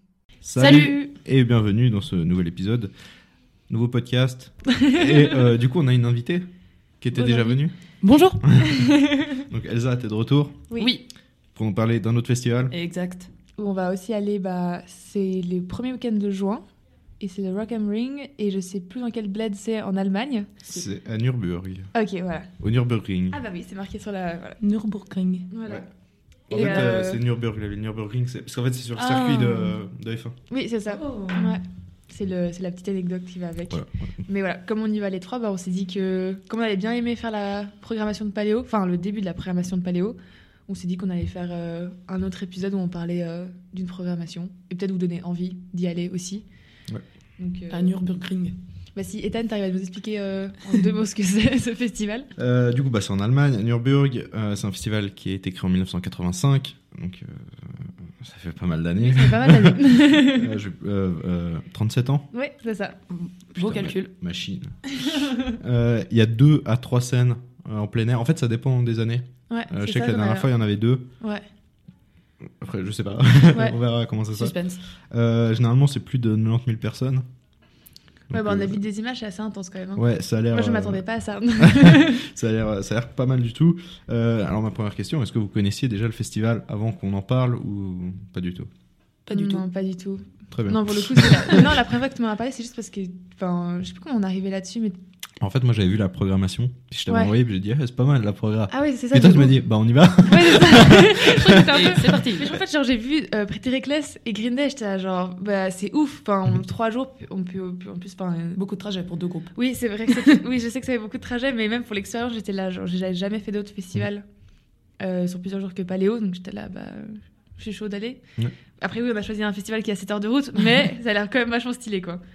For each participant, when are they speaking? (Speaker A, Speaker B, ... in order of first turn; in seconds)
Speaker A: 0.4-2.9, 3.7-6.5, 7.0-7.7, 8.4-10.7, 11.6-12.7, 20.7-21.9, 22.6-23.4, 26.5-30.4, 33.7-34.1, 52.4-62.3, 63.5-71.1, 72.5-74.6, 75.1-77.2, 78.3-78.8, 80.0-81.0, 81.6-88.7, 90.5-91.5, 95.4-102.6
Speaker B: 0.6-1.1, 4.8-5.0, 8.7-9.4, 10.7-11.0, 13.6-16.6, 17.2-20.5, 21.9-22.5, 23.3-24.6, 25.5-25.9, 26.5-27.2, 30.5-46.5, 47.4-48.0, 49.0-52.3, 59.0-60.5, 62.3-63.0, 65.0-65.5, 69.5-70.5, 73.5-73.8, 78.3-82.3, 89.3-95.0, 97.1-97.3, 98.7-99.6, 100.2-108.6, 109.5-114.2, 115.0-118.2, 118.8-122.2
Speaker C: 0.6-0.9, 7.2-8.4, 10.8-11.0, 12.7-13.3, 24.6-25.5, 26.5-27.0, 29.0-29.7, 30.9-31.5, 47.7-48.6, 63.1-64.1, 74.3-74.8, 89.3-89.6, 91.2-91.7, 101.6-102.5, 108.6-109.5, 110.1-110.4